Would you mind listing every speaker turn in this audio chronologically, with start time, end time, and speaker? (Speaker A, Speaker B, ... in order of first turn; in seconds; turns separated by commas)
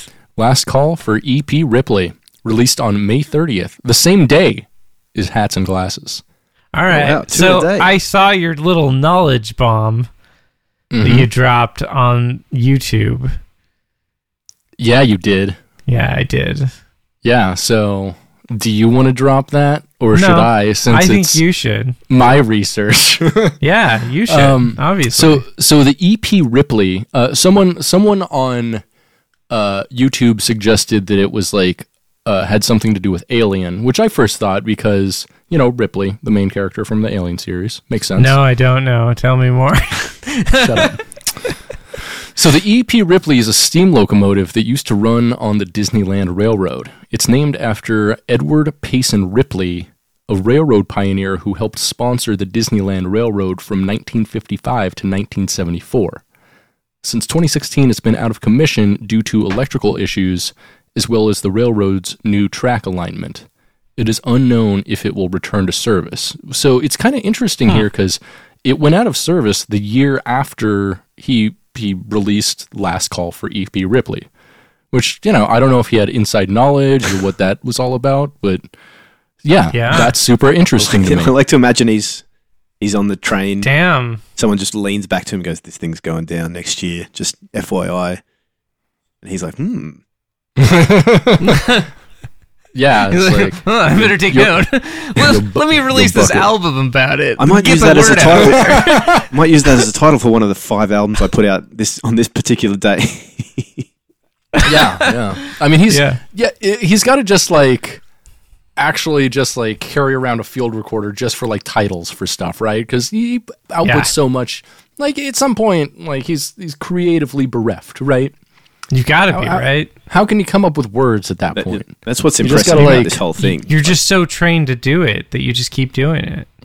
Speaker A: 0.4-6.2, Speaker B: 6.7-10.1, Speaker C: 6.9-7.9, Speaker A: 10.9-11.3, Speaker B: 11.0-13.3, Speaker A: 14.8-15.6, Speaker B: 15.9-16.7, Speaker A: 17.2-21.4, Speaker B: 20.1-22.0, Speaker A: 22.1-23.6, Speaker B: 23.6-25.4, Speaker A: 24.3-28.8, Speaker A: 29.5-38.4, Speaker B: 38.2-40.9, Speaker A: 40.6-41.0, Speaker A: 42.4-56.2, Speaker A: 57.0-63.5, Speaker A: 64.0-74.3, Speaker A: 74.9-78.7, Speaker A: 79.4-81.3, Speaker B: 79.7-80.1, Speaker C: 80.8-82.2, Speaker C: 82.8-83.7, Speaker B: 83.6-84.2, Speaker C: 84.4-88.2, Speaker C: 89.2-90.0, Speaker A: 90.6-91.6, Speaker B: 91.4-91.9, Speaker A: 92.7-96.5, Speaker B: 93.1-99.2, Speaker C: 97.4-103.9, Speaker A: 98.4-99.2, Speaker B: 104.6-106.2, Speaker A: 104.6-108.0, Speaker A: 108.8-118.3, Speaker B: 113.8-114.1, Speaker B: 118.9-119.9, Speaker A: 119.3-123.2, Speaker C: 121.5-124.0, Speaker B: 123.4-126.5